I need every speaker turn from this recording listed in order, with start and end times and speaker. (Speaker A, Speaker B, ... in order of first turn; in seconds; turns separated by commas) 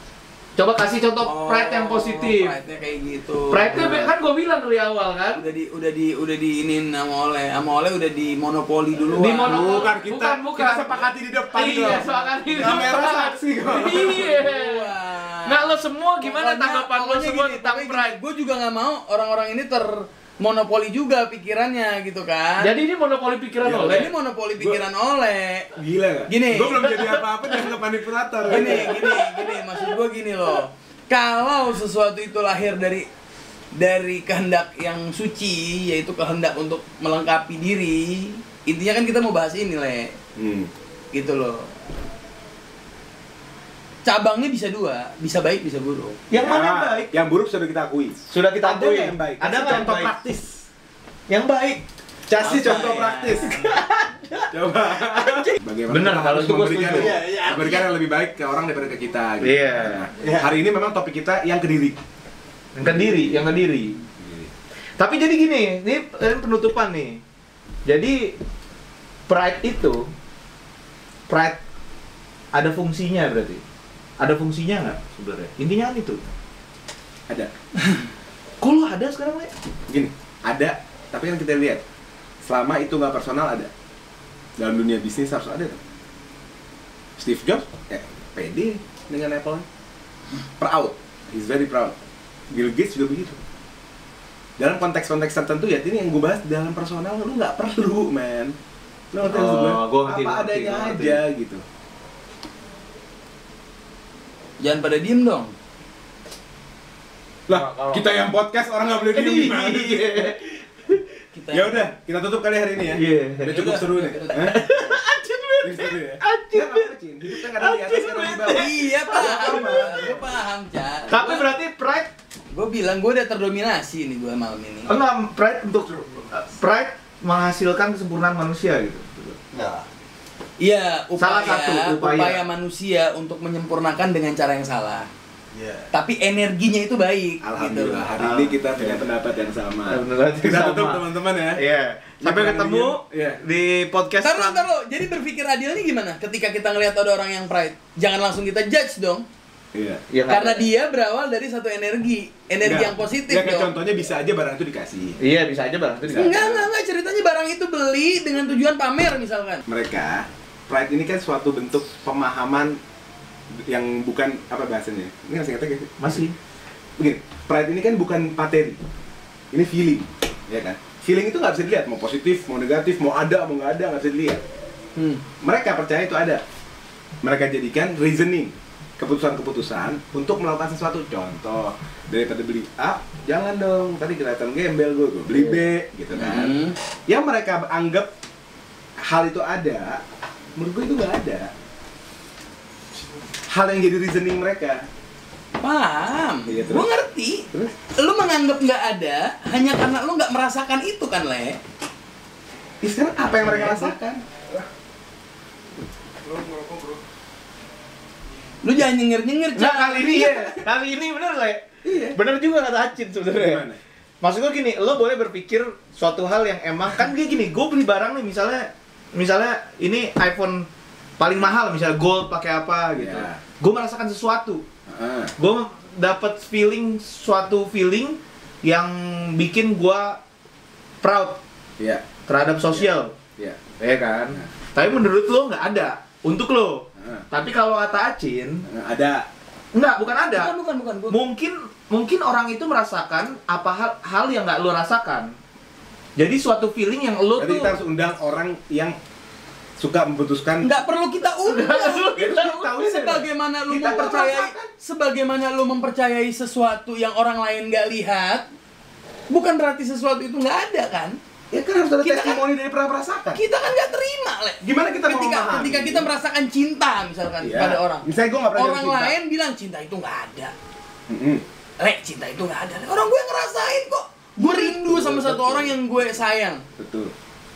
Speaker A: 0.6-2.5, Speaker B: 1.2-4.1, Speaker A: 3.5-5.4, Speaker B: 5.3-9.9, Speaker A: 9.1-14.9, Speaker C: 9.4-14.3, Speaker B: 11.7-12.2, Speaker B: 14.0-22.8, Speaker A: 15.4-18.2, Speaker A: 22.6-24.1, Speaker C: 23.6-24.0, Speaker B: 23.7-25.7, Speaker C: 24.6-24.9, Speaker C: 25.7-29.3, Speaker B: 26.3-27.1, Speaker B: 28.4-33.1, Speaker A: 28.5-29.4, Speaker B: 33.7-40.2, Speaker C: 40.4-40.7, Speaker B: 41.1-41.7, Speaker B: 44.0-46.2, Speaker A: 46.3-47.1, Speaker C: 46.3-50.7, Speaker A: 48.3-50.1, Speaker A: 51.3-51.8, Speaker C: 52.3-53.6, Speaker B: 52.4-53.6, Speaker A: 53.3-54.5, Speaker C: 54.5-62.0, Speaker A: 55.9-57.3, Speaker B: 57.0-57.9, Speaker A: 59.4-60.4, Speaker A: 62.7-64.0, Speaker C: 62.8-63.5, Speaker C: 64.1-64.5, Speaker A: 65.0-67.2, Speaker A: 67.8-68.3, Speaker A: 69.3-70.1, Speaker A: 71.3-71.6, Speaker A: 72.5-73.6, Speaker A: 74.2-76.2, Speaker A: 78.6-79.5, Speaker C: 79.9-81.8, Speaker C: 82.4-83.7, Speaker C: 84.6-85.8, Speaker C: 87.2-89.7, Speaker C: 90.6-92.0, Speaker C: 92.5-93.4, Speaker C: 94.6-98.5, Speaker C: 99.1-101.6, Speaker A: 99.2-101.2, Speaker B: 104.6-105.5, Speaker C: 107.5-110.4, Speaker A: 107.5-108.2, Speaker A: 109.1-111.0, Speaker B: 111.3-111.9, Speaker C: 111.5-114.7, Speaker A: 112.9-113.8, Speaker B: 113.5-115.0, Speaker A: 114.3-120.1, Speaker C: 115.6-120.4, Speaker B: 118.4-121.5, Speaker A: 121.1-122.1, Speaker B: 122.5-125.0, Speaker A: 124.9-129.4, Speaker B: 130.6-135.1, Speaker A: 131.2-132.4, Speaker B: 135.9-138.1, Speaker C: 137.4-141.6, Speaker A: 138.1-139.0, Speaker A: 139.9-144.6, Speaker C: 142.2-143.4, Speaker B: 144.2-149.2, Speaker C: 149.7-150.0, Speaker A: 150.1-150.6, Speaker B: 150.3-153.7, Speaker C: 152.6-155.2, Speaker A: 155.2-156.7, Speaker C: 156.1-156.4, Speaker B: 156.1-159.6, Speaker C: 159.7-162.8, Speaker C: 163.6-166.2, Speaker A: 166.0-166.3, Speaker C: 167.0-168.8, Speaker C: 169.5-174.4, Speaker B: 174.9-175.2, Speaker C: 175.4-176.4, Speaker C: 177.2-188.1, Speaker A: 185.3-185.7, Speaker B: 186.1-186.8, Speaker C: 189.0-190.0, Speaker C: 190.6-191.5, Speaker C: 193.5-194.9, Speaker B: 195.6-201.6, Speaker C: 196.4-196.9, Speaker C: 202.8-204.2, Speaker C: 206.3-206.9, Speaker B: 208.6-210.5, Speaker A: 209.6-213.7, Speaker C: 210.0-210.7, Speaker C: 211.8-212.2, Speaker C: 213.3-213.8, Speaker A: 214.2-220.7, Speaker A: 221.2-224.6, Speaker C: 222.9-223.4, Speaker C: 224.9-225.3, Speaker A: 225.4-230.2, Speaker A: 231.0-231.4, Speaker C: 231.8-232.0, Speaker A: 232.3-233.1, Speaker C: 232.7-233.6, Speaker A: 233.8-238.7, Speaker C: 236.9-237.2, Speaker C: 238.7-239.3, Speaker A: 239.7-240.5, Speaker B: 240.3-241.2, Speaker A: 241.1-245.3, Speaker A: 246.2-247.8, Speaker C: 247.4-248.9, Speaker C: 249.8-250.7, Speaker B: 250.6-258.4, Speaker A: 251.4-252.7, Speaker C: 252.1-254.7, Speaker B: 259.3-261.2, Speaker C: 261.5-263.4, Speaker B: 262.0-262.4, Speaker B: 263.3-270.5, Speaker C: 264.6-266.1, Speaker C: 267.4-269.1, Speaker C: 271.1-271.4, Speaker B: 271.8-276.6, Speaker C: 274.4-276.2, Speaker C: 276.8-277.1